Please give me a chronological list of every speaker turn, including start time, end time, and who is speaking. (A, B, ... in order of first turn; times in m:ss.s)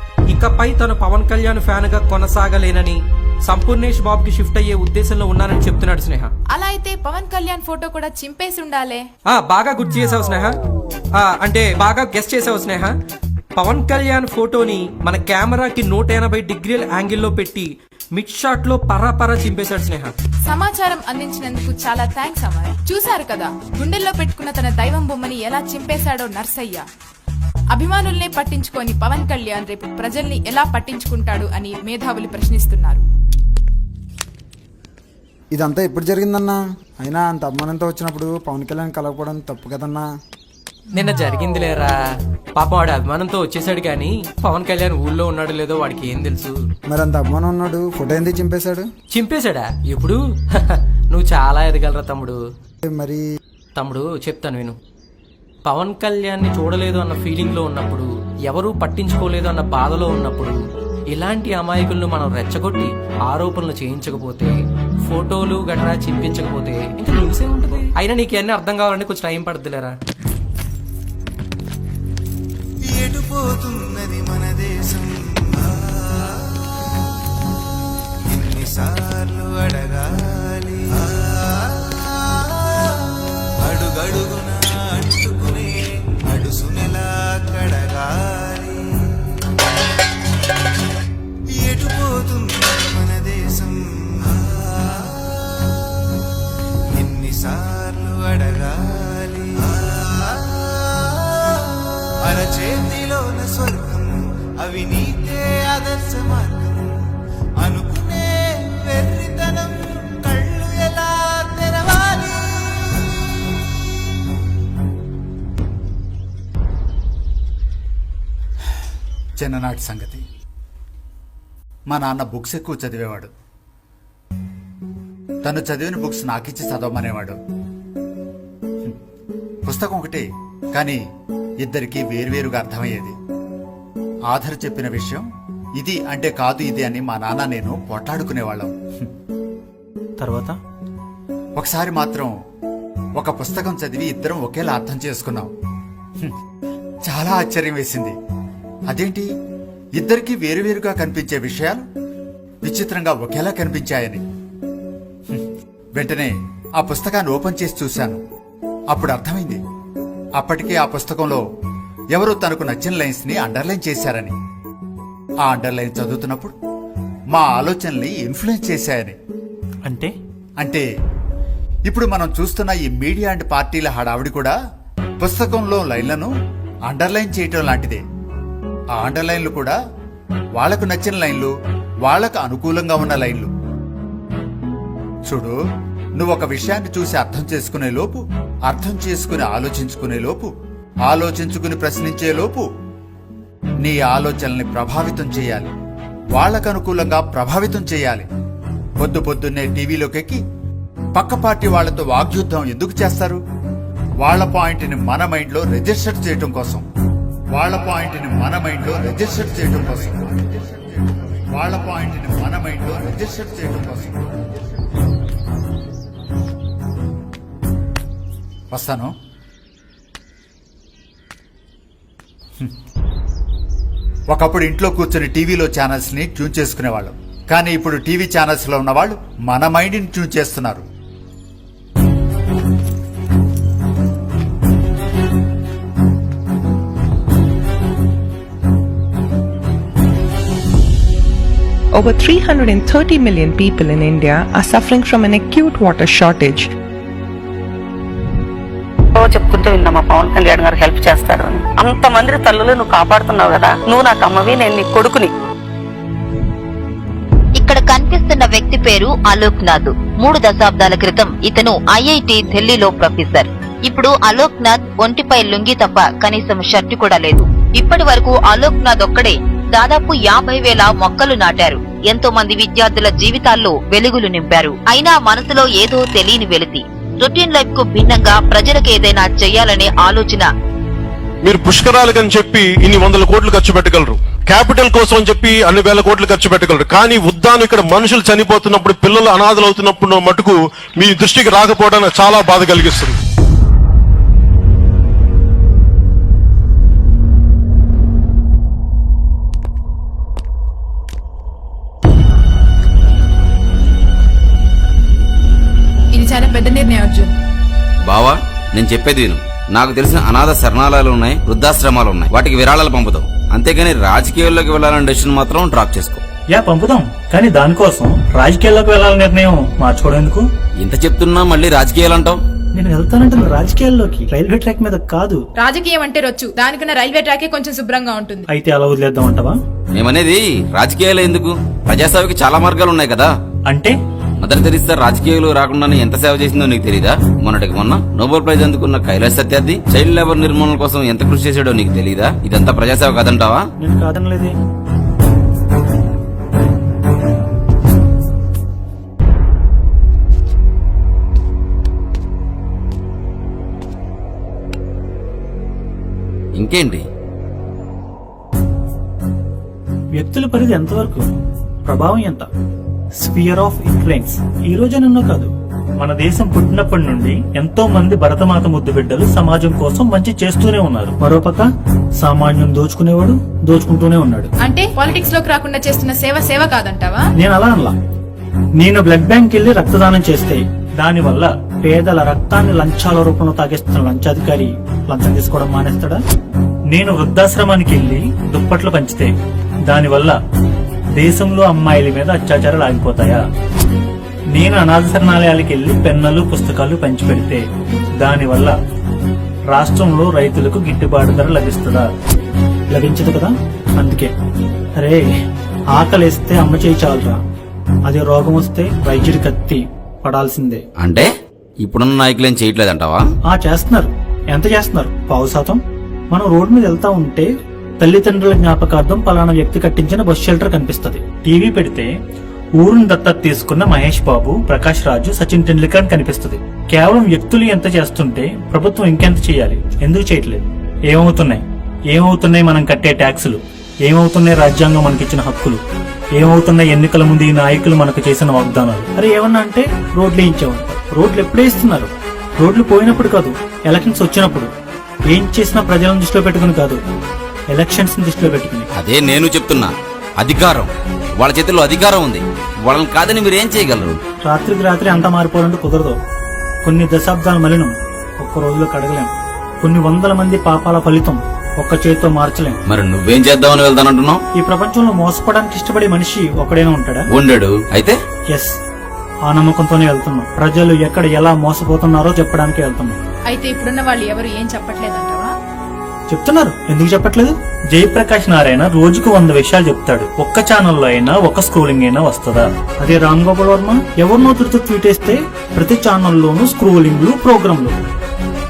0:00.3-0:06.3 A
0:06.5-0:09.0 B
0:09.3-0:10.5 A
0:11.2-0:12.9 A
0:13.6-0:20.1 A
0:20.4-0:26.8 B
0:27.7-0:33.0 B
0:35.5-0:40.1 C
0:40.9-0:41.9 A
0:42.6-0:46.5 A
0:46.9-0:48.9 C
0:49.1-0:52.4 A
0:52.9-0:53.2 C
0:53.8-0:54.8 A
0:55.6-1:00.6 A
1:01.1-1:04.5 A
1:05.1-1:07.1 A
1:07.8-1:09.9 A
1:12.9-1:16.4 D
1:18.3-1:22.9 D
1:23.6-1:28.8 D
1:31.6-1:35.3 D
1:36.9-1:41.6 D
1:42.2-1:46.9 D
1:47.6-1:53.1 D
1:59.4-2:00.2 E
2:01.9-2:03.3 E
2:05.4-2:07.4 E
2:09.6-2:11.0 E
2:11.6-2:13.2 E
2:14.3-2:15.2 E
2:15.8-2:19.1 E
2:20.2-2:20.6 F
2:21.6-2:22.3 E
2:23.2-2:25.5 E
2:27.1-2:28.2 E
2:28.9-2:29.3 E
2:30.0-2:31.9 E
2:32.6-2:34.2 E
2:35.3-2:38.2 E
2:38.9-2:39.6 E
2:40.4-2:41.4 E
2:42.1-2:44.3 E
2:45.4-2:46.5 E
2:47.3-2:49.2 E
2:49.8-2:50.1 F
2:50.6-2:50.8 E
2:51.9-2:54.6 E
2:55.2-2:56.3 E
2:56.9-2:58.0 E
2:58.9-2:59.8 E
3:00.6-3:01.5 E
3:02.0-3:03.5 E
3:05.3-3:05.6 E
3:06.2-3:10.5 E
3:11.1-3:12.7 E
3:13.8-3:15.7 E
3:16.3-3:18.3 E
3:19.0-3:20.4 E
3:21.1-3:23.4 E
3:24.2-3:26.8 E
3:27.5-3:30.5 E
3:31.5-3:34.6 E
3:38.7-3:39.1 E
3:44.3-3:50.8 E
4:02.0-4:06.6 G
4:09.1-4:15.3 H
4:17.6-4:40.5 I
4:41.4-4:53.2 J
5:06.1-5:07.3 B
5:08.0-5:16.2 K
5:16.5-5:20.4 F
5:20.8-5:22.4 K
5:22.8-5:25.4 F
5:25.6-5:28.4 B
5:28.5-5:29.6 F
5:30.0-5:33.3 K
5:33.7-5:34.0 F
5:34.4-5:43.6 K
5:43.8-5:44.5 F
5:56.6-5:57.0 K
6:00.2-6:01.3 F
6:01.8-6:02.5 F
6:03.2-6:11.7 F
6:12.2-6:14.5 F
6:14.6-6:17.3 B
6:17.4-6:18.0 F
6:18.8-6:26.2 F
6:26.9-6:29.3 F
6:29.9-6:30.4 F
6:31.2-6:33.4 F
6:34.5-6:37.6 F
6:38.2-6:38.8 F
6:39.7-6:42.1 F
6:42.9-6:44.3 F
6:45.0-6:45.3 F
6:45.9-6:47.4 F
6:48.1-6:50.8 F
6:51.0-6:51.3 K
6:51.8-6:53.2 K
6:53.4-6:55.8 F
6:56.3-6:57.5 F
6:58.0-7:02.1 F
7:02.8-7:15.8 F
7:16.4-7:24.7 F
7:25.3-7:27.0 F
7:27.7-7:28.9 F
7:29.0-7:34.2 K
7:34.5-7:36.2 F
7:36.8-7:39.3 F
7:39.8-7:42.8 F
7:42.9-7:44.4 K
7:44.6-7:47.2 F
7:47.3-7:48.2 K
7:48.5-7:48.8 F
7:49.5-7:53.2 F
7:53.5-7:55.5 B
7:56.3-8:08.0 F